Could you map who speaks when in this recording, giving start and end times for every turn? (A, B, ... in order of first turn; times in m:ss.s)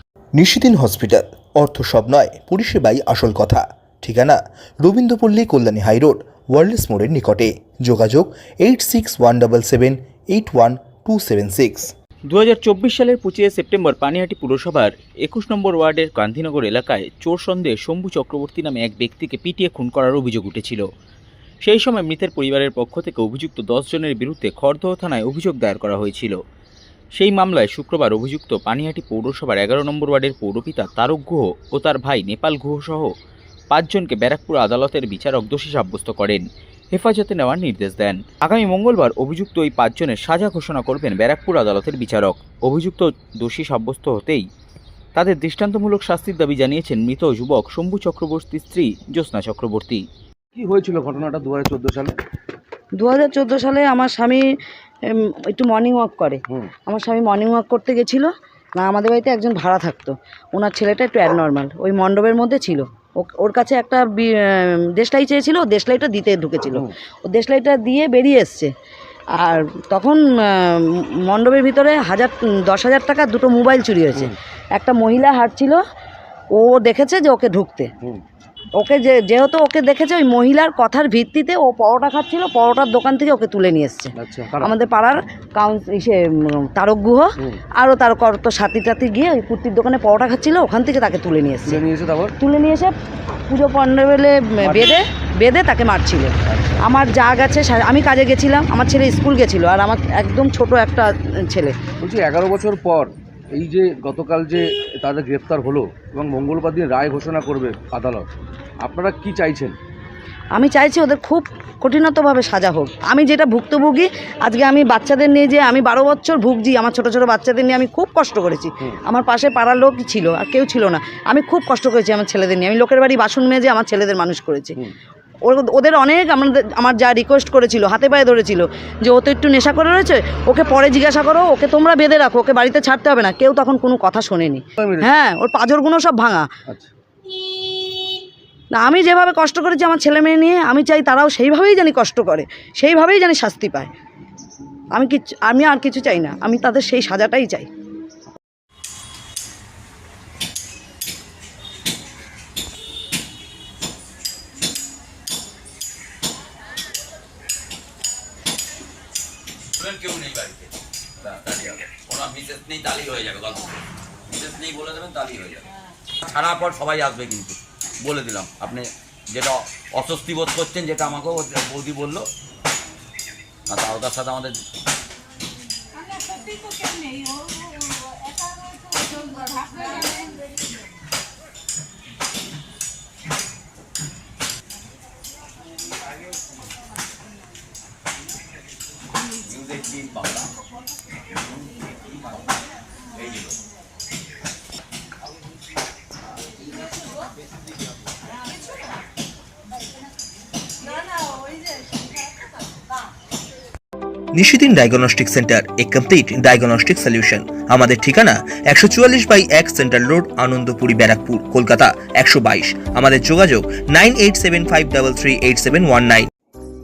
0:00.4-0:11.9 A
0:12.3-0:20.9 B
0:21.6-0:26.4 B
0:27.2-0:33.1 B
0:33.7-0:44.5 B
0:45.2-0:50.0 B
0:50.6-0:52.1 C
0:53.0-0:54.4 D
0:55.1-1:08.7 D
1:09.4-1:15.8 D
1:16.6-1:17.9 D
1:18.8-1:31.8 D
1:24.2-1:24.7 C
1:31.7-1:32.4 C
1:32.4-1:32.9 D
1:33.5-1:41.8 D
1:34.6-1:35.0 C
1:36.5-1:36.8 C
1:42.0-1:48.3 C
1:48.8-1:49.8 C
1:50.6-2:04.8 D
2:05.5-2:16.5 D
2:14.8-2:15.1 C
2:16.7-2:16.9 C
2:18.7-2:23.9 D
2:25.0-2:27.7 D
2:39.8-2:43.8 E
2:44.3-2:45.7 E
2:46.2-2:52.3 E
2:53.7-2:54.5 E
3:09.4-3:10.6 E
3:11.4-3:12.6 E
3:13.1-3:13.6 E
3:24.4-3:36.3 A